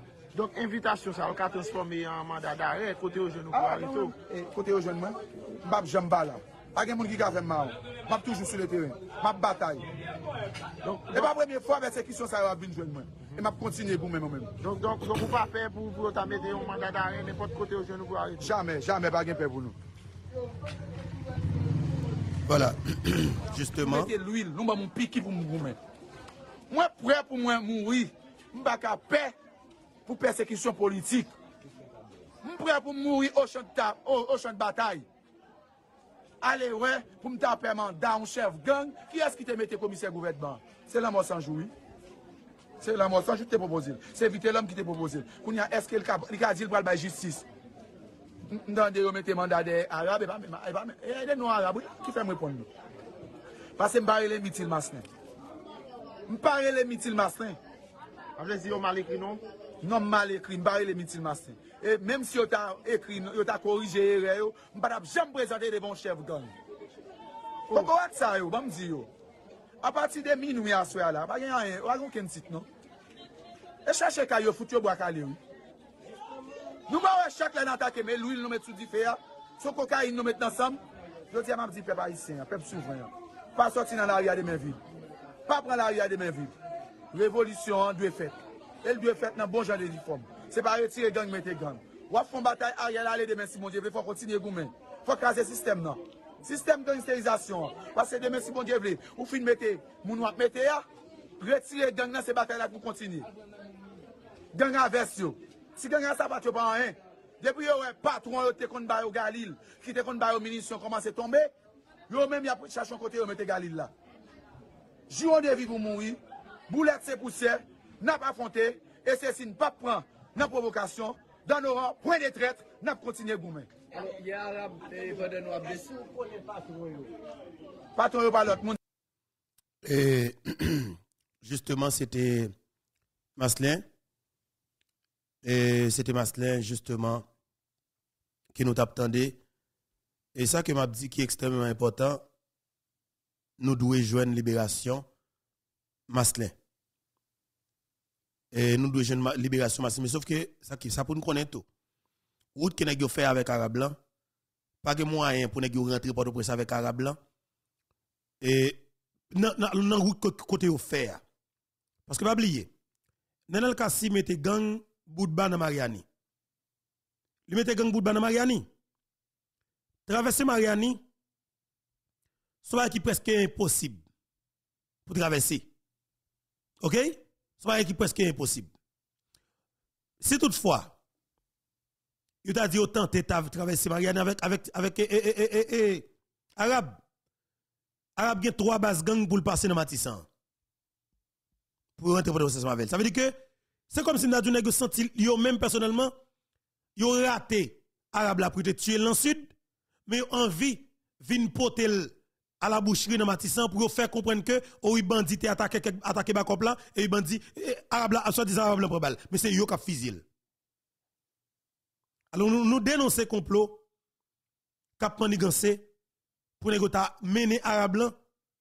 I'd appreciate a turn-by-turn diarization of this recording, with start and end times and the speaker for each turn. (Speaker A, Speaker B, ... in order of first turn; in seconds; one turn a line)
Speaker A: 0.3-4.1
Speaker B: 3.5-9.9
Speaker A: 10.8-11.3
Speaker B: 11.1-14.5
Speaker A: 14.6-18.5
Speaker B: 18.4-19.8
Speaker C: 22.5-24.1
Speaker B: 23.8-25.8
Speaker B: 26.7-29.4
Speaker B: 30.1-31.3
Speaker B: 32.4-35.1
Speaker B: 36.4-41.7
Speaker B: 42.8-47.5
Speaker B: 48.5-52.7
Speaker B: 53.8-55.1
Speaker B: 56.3-57.6
Speaker A: 58.4-59.4
Speaker B: 59.8-66.5
Speaker B: 67.7-69.1
Speaker B: 69.8-72.7
Speaker B: 73.8-75.4
Speaker B: 76.9-84.8
Speaker B: 85.5-86.5
Speaker B: 87.1-100.8
Speaker B: 101.4-103.3
Speaker B: 104.5-111.5
Speaker B: 112.1-113.9
Speaker B: 115.1-123.7
Speaker D: 123.9-127.1
Speaker B: 128.0-128.8
Speaker C: 129.8-132.5
Speaker C: 133.4-133.8
Speaker C: 135.4-137.3
Speaker C: 138.5-139.4
Speaker C: 140.3-142.2
Speaker C: 143.6-145.1
Speaker C: 146.1-146.6
Speaker C: 148.5-151.7
Speaker C: 152.6-154.0
Speaker C: 154.8-157.2
Speaker C: 158.4-158.8
Speaker C: 159.3-161.2
Speaker C: 162.1-162.7
Speaker C: 163.5-166.0
Speaker C: 167.5-168.7
Speaker C: 170.1-171.0
Speaker C: 172.6-174.0
Speaker C: 175.1-175.7
Speaker C: 176.8-178.7
Speaker C: 180.2-180.9
Speaker C: 182.4-187.0
Speaker C: 188.2-190.3
Speaker C: 192.0-193.3
Speaker C: 193.9-196.1
Speaker C: 197.0-199.5
Speaker C: 200.1-210.2
Speaker C: 212.3-213.8
Speaker C: 215.0-215.9
Speaker C: 216.6-218.2